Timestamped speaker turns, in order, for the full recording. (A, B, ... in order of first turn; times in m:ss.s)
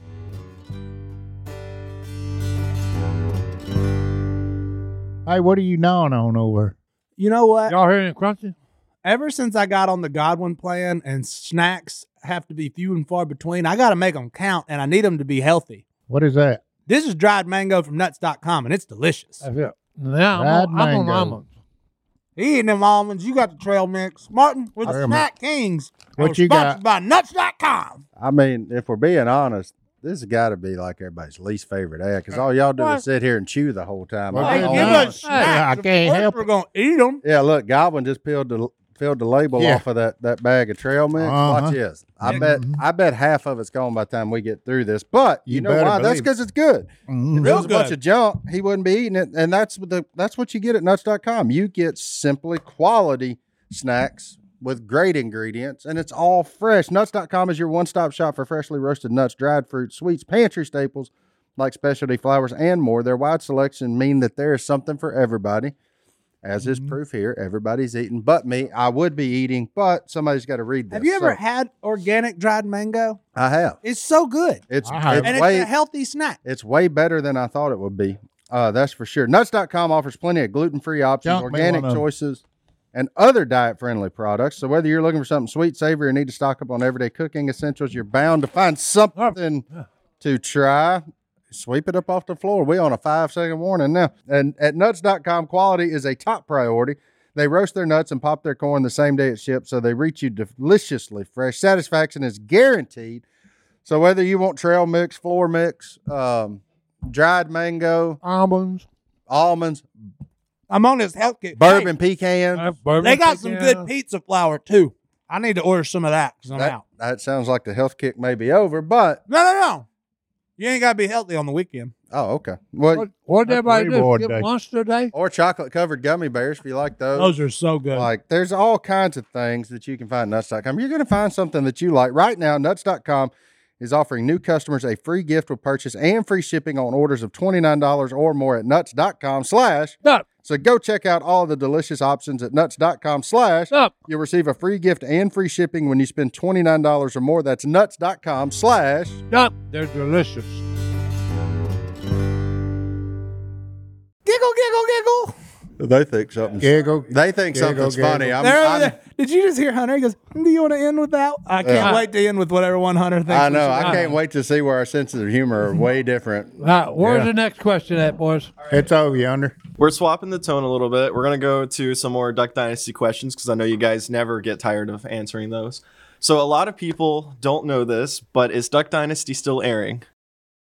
0:05.2-0:06.7 A
0:07.2-0:07.7 B
0:07.7-0:08.5 C
0:09.0-0:15.8 B
0:16.1-0:16.6 A
0:16.9-0:19.4 B
0:19.4-0:21.4 C
0:20.3-0:21.4 A
0:22.4-0:28.0 B
0:24.8-0:25.3 A
0:26.2-0:26.8 A
0:28.2-0:35.2 D
0:34.3-0:36.5 A
0:34.4-0:35.5 C
0:34.4-0:37.2 B
0:37.2-1:05.7 D
0:39.6-0:39.8 A
0:41.2-0:42.8 A
0:45.5-0:46.3 A
0:47.1-0:47.6 A
0:47.4-0:48.0 B
1:06.4-1:11.4 D
1:06.6-1:06.9 A
1:10.9-1:13.2 B
1:13.4-1:13.8 D
1:13.8-1:14.6 B
1:14.7-1:15.7 D
1:14.8-1:15.4 A
1:15.2-1:16.4 B
1:16.4-1:22.4 D
1:21.2-1:22.0 A
1:22.9-1:29.6 D
1:30.2-1:43.2 D
1:43.8-1:48.2 D
1:48.2-1:48.8 C
1:49.3-1:49.8 D
1:50.7-1:51.9 B
1:51.6-1:52.6 D
1:52.6-1:53.9 C
1:53.0-1:56.8 B
1:56.5-1:59.2 D
1:59.3-1:59.8 B
2:00.6-2:01.9 B
2:02.1-2:03.0 D
2:02.9-2:05.1 C
2:03.4-2:04.5 A
2:05.1-2:07.3 D
2:07.1-2:08.1 B
2:07.9-2:29.2 D
2:29.3-2:30.6 C
2:34.2-2:35.3 B
2:35.8-2:39.0 D
2:36.6-2:38.4 A
2:38.4-2:44.2 B
2:41.6-2:41.9 D
2:43.3-2:46.6 D
2:46.6-2:48.5 C
2:47.0-2:47.3 A
2:48.6-2:49.5 A
2:49.8-3:00.0 E